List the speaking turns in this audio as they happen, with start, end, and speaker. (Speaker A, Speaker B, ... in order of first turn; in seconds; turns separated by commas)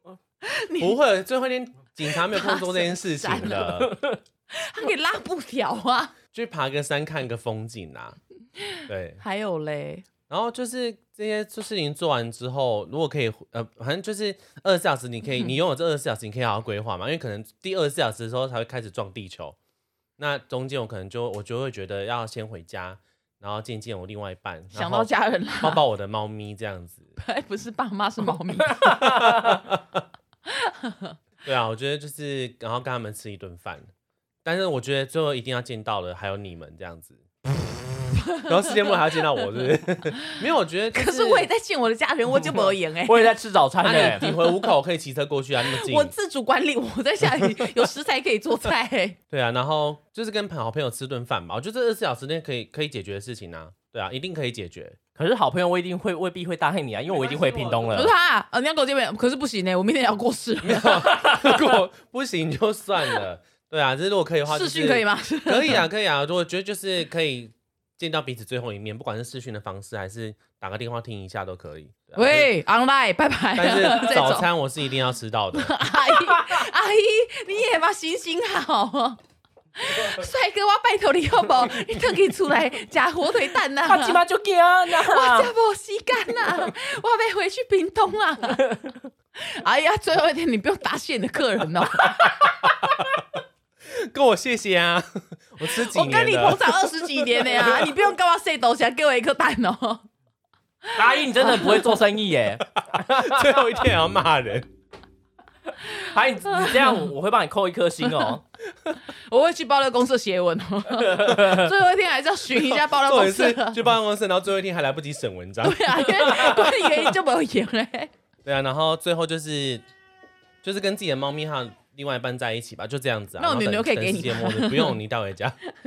Speaker A: 0.4-1.0, Speaker B: 0.8-3.9, Speaker A: 2.1-3.8, Speaker C: 3.8-4.2, Speaker A: 4.5-6.1, Speaker B: 6.3-8.2, Speaker A: 8.7-10.1, Speaker B: 8.9-9.2, Speaker B: 10.3-19.6, Speaker B: 20.2-25.1, Speaker A: 24.7-25.8, Speaker B: 25.6-27.1, Speaker A: 27.2-29.1, Speaker B: 28.8-30.0, Speaker A: 30.5-31.1, Speaker B: 31.4-33.9, Speaker B: 34.4-41.5, Speaker A: 38.3-38.6, Speaker A: 40.9-43.3, Speaker C: 43.0-44.3, Speaker B: 43.8-46.1, Speaker A: 43.9-44.6, Speaker A: 45.6-49.2, Speaker B: 47.4-47.6, Speaker B: 49.3-55.0, Speaker C: 55.1-58.1, Speaker B: 57.1-58.1, Speaker A: 57.9-61.1, Speaker B: 60.6-72.5, Speaker A: 64.5-65.8, Speaker A: 72.1-74.5, Speaker B: 73.5-75.7, Speaker A: 75.5-79.2, Speaker C: 76.2-76.6, Speaker A: 79.8-84.2, Speaker C: 83.8-85.5, Speaker A: 84.9-88.6, Speaker C: 88.6-89.0, Speaker A: 89.3-92.3, Speaker B: 93.9-97.7, Speaker A: 95.7-100.0, Speaker A: 100.8-102.0, Speaker C: 100.9-103.5, Speaker B: 102.8-104.7, Speaker C: 105.7-108.4, Speaker A: 106.5-107.1, Speaker A: 108.0-108.3, Speaker A: 109.1-113.8, Speaker C: 111.0-111.7, Speaker B: 112.5-116.7, Speaker A: 115.6-118.1, Speaker B: 118.4-119.8, Speaker B: 120.6-125.5, Speaker A: 123.4-125.0